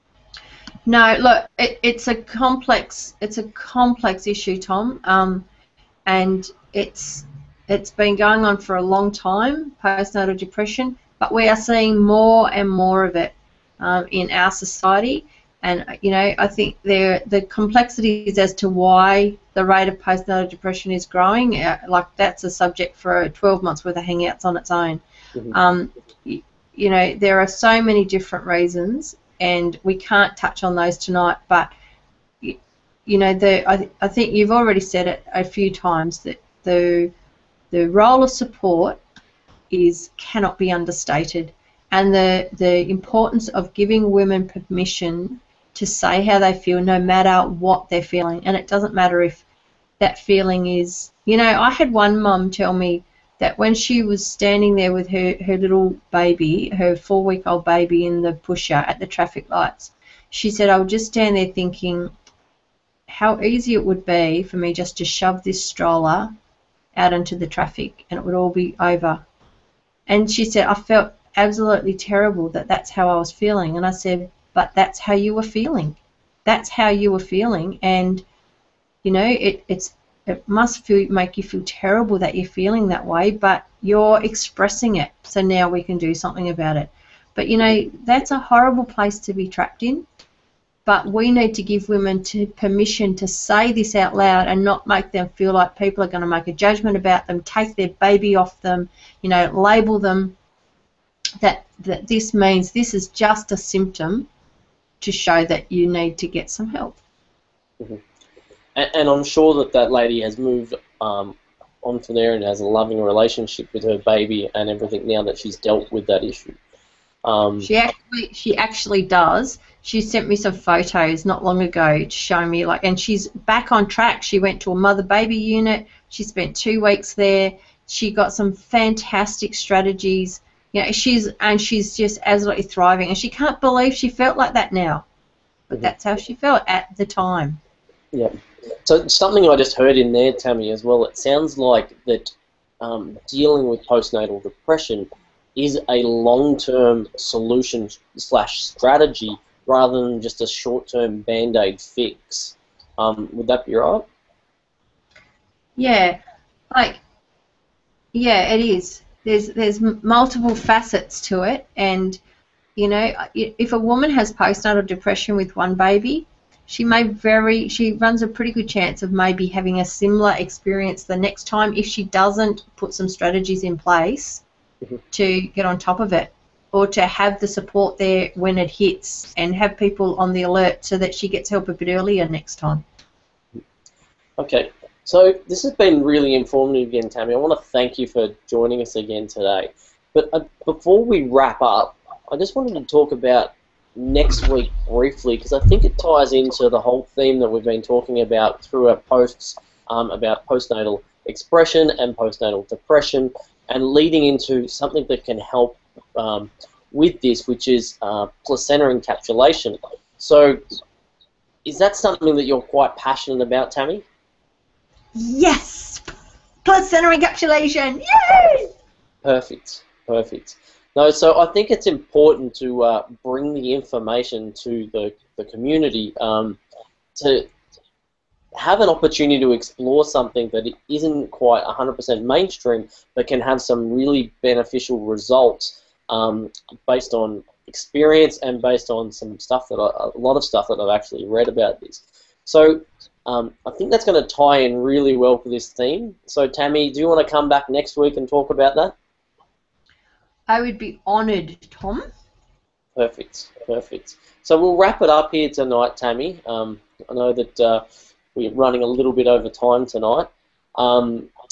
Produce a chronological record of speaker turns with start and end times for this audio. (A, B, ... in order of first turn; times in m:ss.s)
0:00.8-0:05.4 A
0:06.0-0:31.7 A
0:32.4-0:37.1 A
0:37.7-0:39.0 A
0:39.7-0:49.4 A
0:50.0-1:02.1 A
1:03.1-1:06.3 A
1:06.9-1:09.2 A
1:10.1-1:18.2 A
1:19.0-1:30.0 A
1:30.8-1:40.3 A
1:41.4-1:44.3 A
1:45.0-1:47.0 A
1:48.7-1:56.6 B
1:57.2-1:57.7 B
1:57.6-2:15.0 A
2:15.7-2:17.6 A
2:18.1-2:34.1 B
2:35.8-2:36.2 A
2:36.7-2:37.0 A
2:38.1-2:42.2 A
2:42.8-2:54.4 A
2:55.1-3:02.8 A
3:04.4-3:30.6 B
3:31.6-3:34.0 B
3:35.1-3:36.0 A
3:36.6-3:38.7 A
3:39.2-3:46.6 B
3:47.2-3:47.5 B
3:48.5-4:08.9 B
4:10.5-4:12.0 A
4:13.0-4:17.8 B
4:18.3-4:21.3 B